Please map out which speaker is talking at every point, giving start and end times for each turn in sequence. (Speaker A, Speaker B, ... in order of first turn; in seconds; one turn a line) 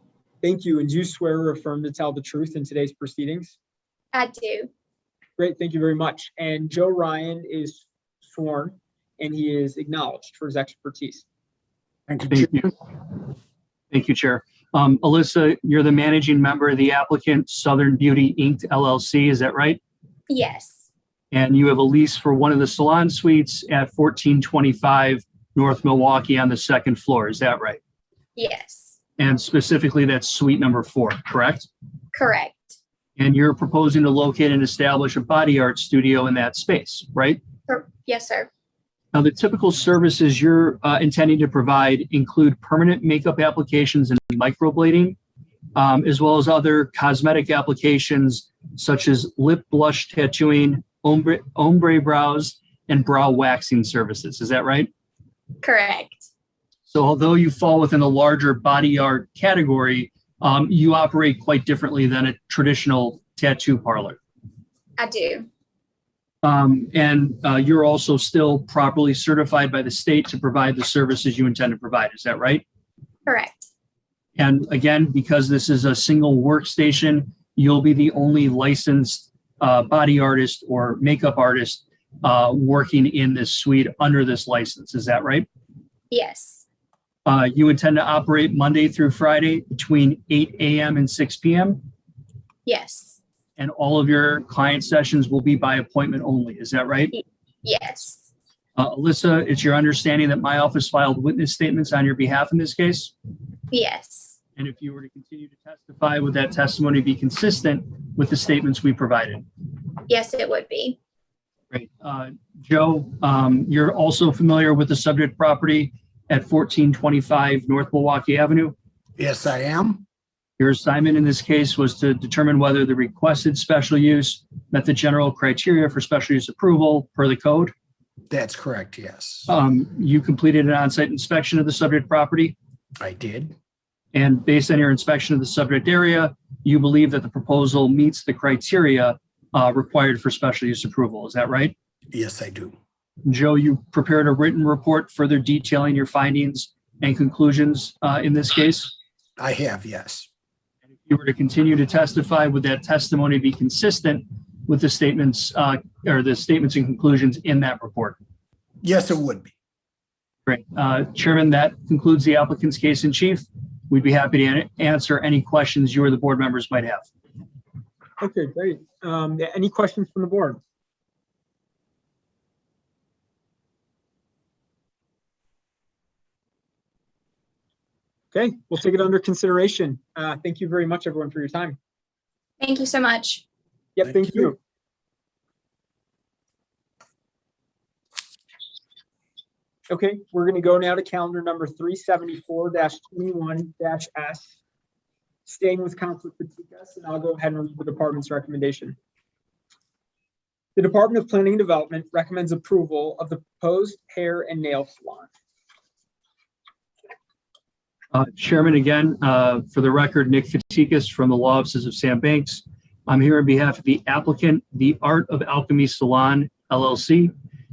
Speaker A: 0.4-3.6
Speaker B: 4.1-4.7
Speaker A: 5.4-11.2
Speaker C: 12.1-12.5
Speaker D: 12.3-12.7
Speaker D: 13.9-19.8
Speaker B: 20.3-20.9
Speaker D: 21.3-27.8
Speaker B: 28.4-29.0
Speaker D: 29.2-31.7
Speaker B: 32.1-32.8
Speaker D: 33.2-37.4
Speaker B: 37.7-38.5
Speaker D: 39.1-45.2
Speaker D: 45.8-54.9
Speaker B: 55.6-56.3
Speaker D: 56.9-64.2
Speaker B: 65.0-65.5
Speaker D: 66.4-72.6
Speaker B: 73.3-73.7
Speaker D: 74.4-85.5
Speaker B: 86.1-86.6
Speaker D: 87.3-91.9
Speaker B: 92.7-93.2
Speaker D: 93.6-97.1
Speaker B: 97.1-98.3
Speaker D: 98.8-103.1
Speaker B: 103.7-104.4
Speaker D: 104.6-109.5
Speaker B: 110.1-111.0
Speaker D: 111.7-118.8
Speaker C: 119.2-120.0
Speaker D: 120.6-127.7
Speaker C: 128.3-129.5
Speaker D: 129.5-132.6
Speaker C: 133.0-133.6
Speaker D: 134.1-141.7
Speaker C: 142.1-142.8
Speaker D: 143.2-149.0
Speaker C: 149.4-150.3
Speaker D: 151.0-158.2
Speaker C: 158.8-159.5
Speaker D: 160.5-167.1
Speaker A: 168.2-170.6
Speaker A: 178.3-181.8
Speaker B: 182.6-183.4
Speaker A: 184.0-184.6
Speaker A: 189.9-194.5
Speaker A: 195.5-199.0
Speaker A: 200.8-205.3
Speaker D: 208.1-217.3